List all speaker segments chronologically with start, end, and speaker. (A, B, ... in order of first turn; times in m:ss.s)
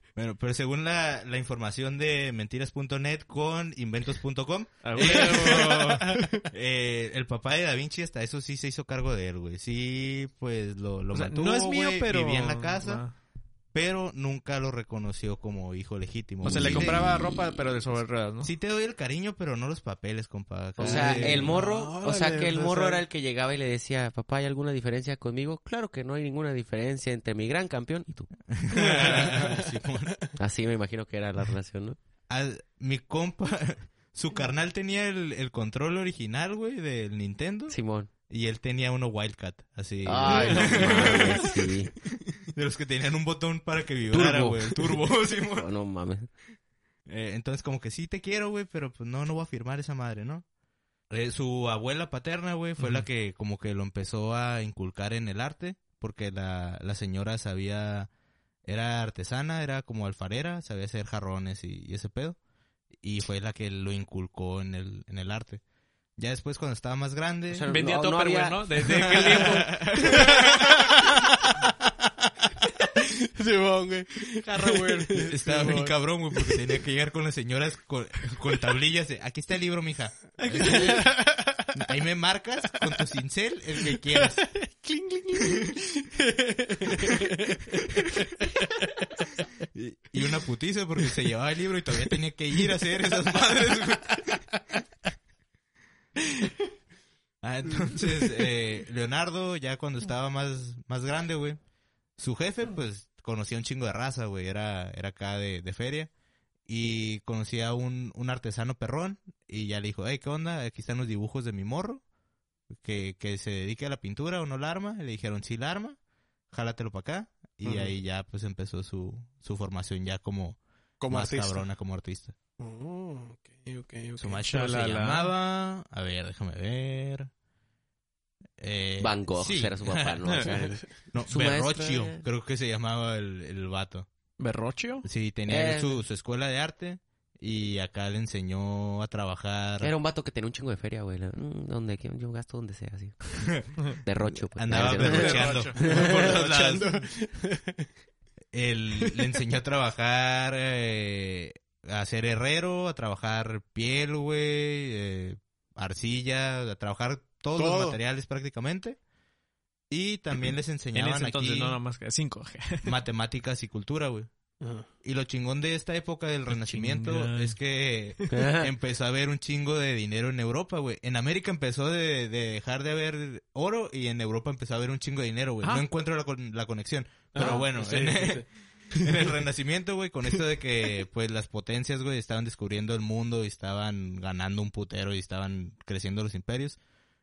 0:00.2-0:06.0 A
0:04.8-0:06.4 B
0:05.0-0:06.4 C
0:06.5-0:13.0 A
0:11.1-0:13.1 B
0:13.7-0:17.1 A
0:16.4-0:18.5 B
0:16.5-0:17.8 D
0:18.4-0:21.6 A
0:20.8-0:28.3 D
0:20.8-0:23.0 C
0:28.5-0:30.2 A
0:29.0-0:29.6 C
0:30.4-0:32.0 D
0:32.3-0:41.6 A
0:37.7-0:38.1 D
0:40.0-0:41.9 D
0:40.2-0:41.6 B
0:42.5-0:45.7 A
0:44.1-0:45.0 D
0:45.6-0:46.3 D
0:47.1-0:50.4 A
0:51.1-0:58.1 A
0:52.8-0:53.0 B
0:58.6-1:02.4 A
1:03.0-1:05.6 A
1:06.2-1:07.7 A
1:07.5-1:09.4 D
1:07.7-1:11.1 B
1:09.4-1:10.9 A
1:09.7-1:11.5 C
1:12.8-1:16.7 C
1:14.4-1:15.8 B
1:15.3-1:21.2 A
1:20.4-1:21.7 C
1:20.4-1:21.1 B
1:21.7-1:24.5 A
1:24.4-1:27.8 C
1:29.7-1:34.3 A
1:37.4-1:41.6 A
1:42.2-1:46.1 A
1:46.7-1:52.0 A
1:52.8-1:56.0 A
1:56.5-2:02.4 A
1:57.6-1:58.0 C
2:01.0-2:01.6 C
2:02.6-2:04.5 C
2:04.2-2:07.3 A
2:04.5-2:05.3 B
2:08.6-2:10.2 A
2:09.0-2:10.7 D
2:10.4-2:10.9 C
2:11.1-2:14.1 A
2:11.3-2:12.2 D
2:14.4-2:15.1 B
2:15.0-2:19.9 A
2:15.5-2:16.0 D
2:19.8-2:23.4 D
2:24.0-2:26.1 D
2:24.3-2:26.9 A
2:24.7-2:25.9 B
2:24.9-2:27.8 C
2:28.5-2:39.0 A
2:37.6-2:38.0 C
2:39.9-2:41.8 A
2:40.9-2:43.0 B
2:42.8-2:44.3 A
2:44.6-2:44.9 C
2:45.0-3:06.8 A
2:46.5-2:47.6 B
2:48.2-2:48.5 B
2:48.3-2:48.7 D
2:57.3-2:59.3 C